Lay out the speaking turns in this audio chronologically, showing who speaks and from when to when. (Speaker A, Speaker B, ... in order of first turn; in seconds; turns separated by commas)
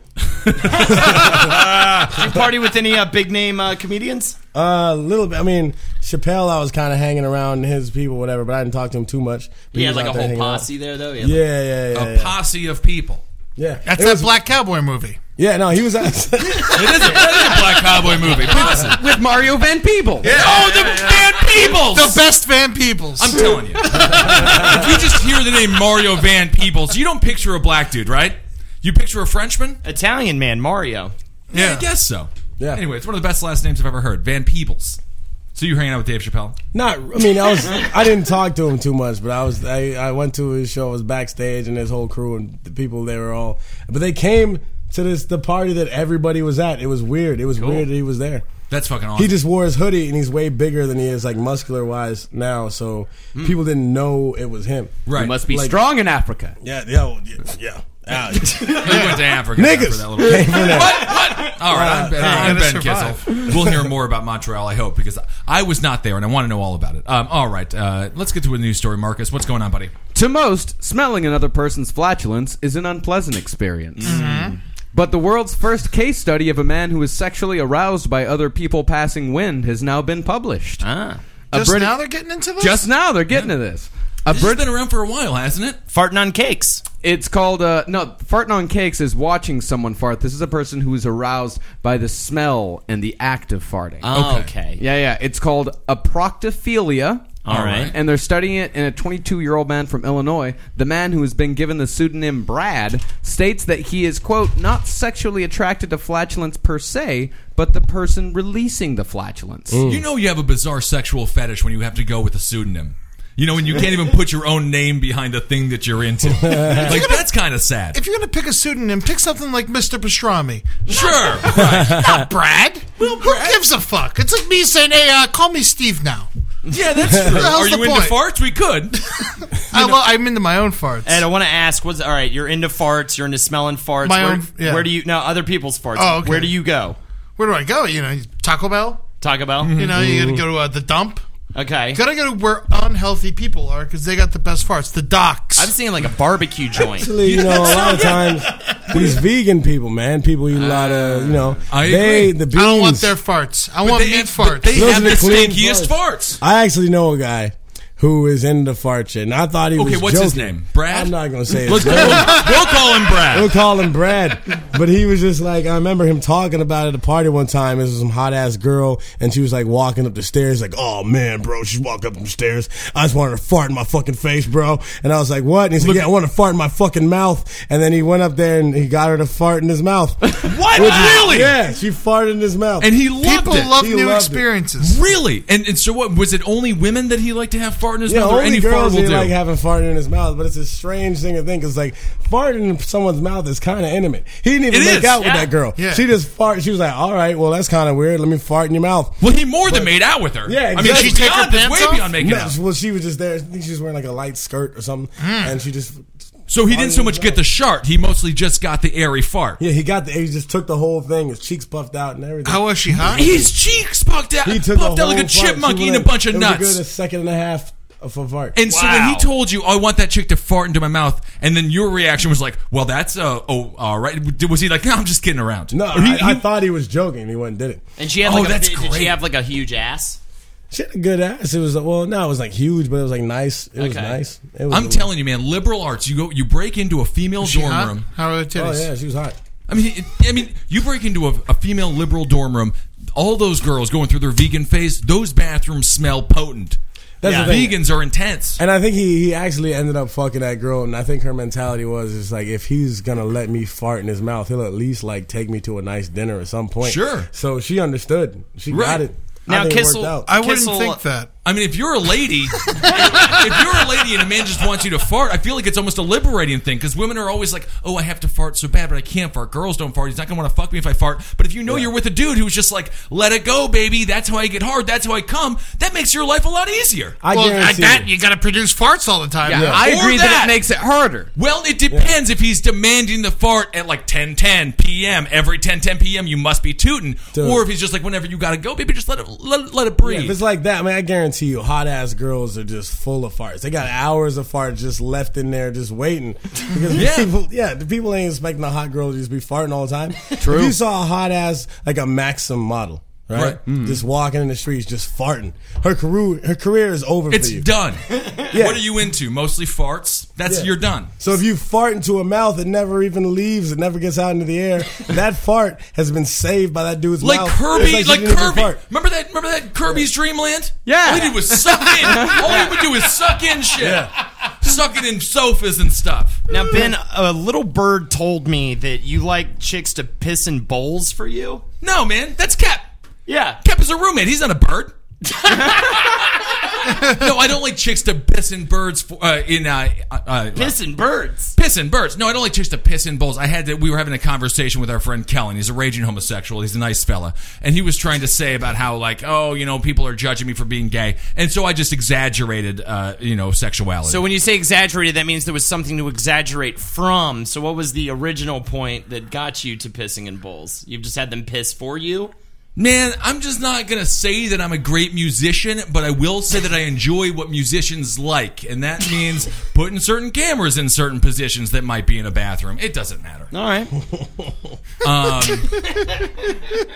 Speaker A: 0.3-2.3, Speaker B: 0.6-1.6, Speaker C: 1.4-4.4, Speaker B: 4.5-10.7, Speaker C: 9.7-11.4, Speaker B: 11.2-12.3, Speaker A: 11.9-13.2, Speaker B: 13.6-14.3, Speaker D: 13.9-15.2, Speaker B: 15.4-17.3, Speaker A: 16.6-19.1, Speaker E: 18.6-20.3, Speaker A: 20.2-22.3, Speaker D: 20.2-25.0, Speaker A: 23.2-29.8, Speaker C: 29.8-31.1, Speaker D: 31.5-31.9, Speaker A: 31.5-35.0, Speaker A: 35.5-36.6, Speaker B: 36.7-48.5, Speaker A: 48.7-49.4, Speaker B: 49.2-55.8, Speaker A: 55.1-55.4, Speaker E: 55.1-56.6, Speaker B: 56.6-62.6, Speaker A: 58.6-69.9, Speaker D: 58.9-59.2, Speaker D: 62.2-63.5, Speaker E: 70.1-80.8, Speaker C: 74.0-74.5, Speaker D: 74.0-74.6, Speaker C: 80.8-81.2, Speaker E: 81.5-82.0, Speaker D: 81.5-82.9, Speaker E: 82.6-84.7, Speaker A: 84.3-85.8, Speaker C: 85.9-86.8, Speaker E: 87.0-94.1, Speaker C: 94.0-94.8, Speaker A: 94.1-94.5, Speaker E: 94.8-97.3, Speaker C: 97.5-97.9, Speaker A: 97.5-97.9, Speaker E: 97.9-109.8, Speaker B: 109.7-110.0, Speaker A: 109.8-118.0, Speaker B: 116.4-117.0, Speaker D: 116.9-117.2, Speaker D: 117.9-126.3, Speaker A: 120.9-122.0, Speaker B: 121.5-122.2, Speaker A: 123.0-123.6, Speaker A: 126.7-130.0, Speaker B: 127.1-127.5, Speaker D: 127.1-128.2, Speaker D: 129.6-131.3, Speaker C: 131.1-137.0, Speaker D: 134.0-134.9, Speaker D: 136.0-136.5, Speaker D: 137.4-139.0, Speaker C: 139.2-139.8, Speaker D: 139.6-141.2, Speaker B: 139.8-140.5, Speaker C: 141.5-142.0, Speaker D: 141.9-145.7, Speaker C: 145.6-147.2, Speaker B: 147.0-153.1, Speaker A: 147.2-148.2, Speaker D: 147.3-149.1, Speaker C: 150.5-151.6, Speaker A: 151.7-152.4, Speaker D: 152.5-155.2, Speaker A: 153.8-156.4, Speaker B: 154.7-182.9, Speaker A: 159.8-163.5, Speaker D: 161.8-162.7, Speaker A: 175.8-176.1, Speaker A: 180.4-181.6, Speaker A: 182.8-183.8, Speaker D: 183.2-185.1, Speaker B: 183.8-184.4, Speaker A: 184.8-189.3, Speaker B: 188.1-201.3, Speaker A: 194.7-195.2, Speaker C: 195.2-195.5, Speaker D: 195.8-196.0, Speaker A: 199.2-202.6, Speaker D: 200.8-202.2, Speaker B: 202.2-206.1, Speaker D: 205.2-205.6, Speaker A: 206.5-209.6, Speaker B: 206.7-207.4, Speaker B: 209.6-213.5, Speaker D: 212.4-213.4, Speaker A: 213.1-216.8, Speaker B: 214.4-218.6, Speaker A: 218.6-226.4, Speaker C: 218.7-219.3, Speaker B: 225.7-227.8, Speaker C: 228.0-230.2, Speaker A: 228.2-229.2, Speaker B: 230.7-235.1, Speaker C: 233.8-234.2, Speaker A: 234.7-238.1, Speaker D: 237.4-238.9, Speaker B: 238.6-239.4, Speaker A: 239.7-248.6, Speaker B: 247.2-247.8, Speaker C: 247.2-247.6, Speaker B: 248.6-260.3, Speaker A: 256.8-257.3, Speaker A: 258.7-259.0, Speaker C: 259.5-261.0, Speaker D: 260.3-261.3, Speaker A: 261.4-277.2, Speaker B: 277.2-278.1, Speaker D: 277.3-279.8, Speaker E: 279.4-281.3, Speaker B: 279.5-279.8, Speaker A: 279.7-280.6, Speaker A: 281.4-290.4, Speaker B: 281.9-282.1, Speaker B: 287.3-287.7, Speaker B: 290.0-307.7, Speaker A: 296.9-297.3, Speaker E: 300.4-300.8, Speaker A: 303.3-303.6, Speaker A: 307.3-311.1, Speaker B: 308.5-308.8, Speaker B: 310.5-318.8, Speaker A: 317.2-326.4, Speaker E: 320.9-322.6, Speaker C: 320.9-321.3, Speaker B: 323.8-324.1, Speaker C: 326.5-331.6, Speaker A: 331.8-332.9, Speaker C: 333.3-333.6, Speaker A: 333.6-334.9, Speaker C: 335.4-336.3, Speaker A: 335.5-340.8, Speaker D: 336.9-337.3, Speaker C: 340.6-341.5, Speaker A: 341.6-354.2, Speaker C: 354.1-362.3, Speaker A: 362.8-373.5, Speaker C: 373.5-373.9, Speaker A: 375.0-375.9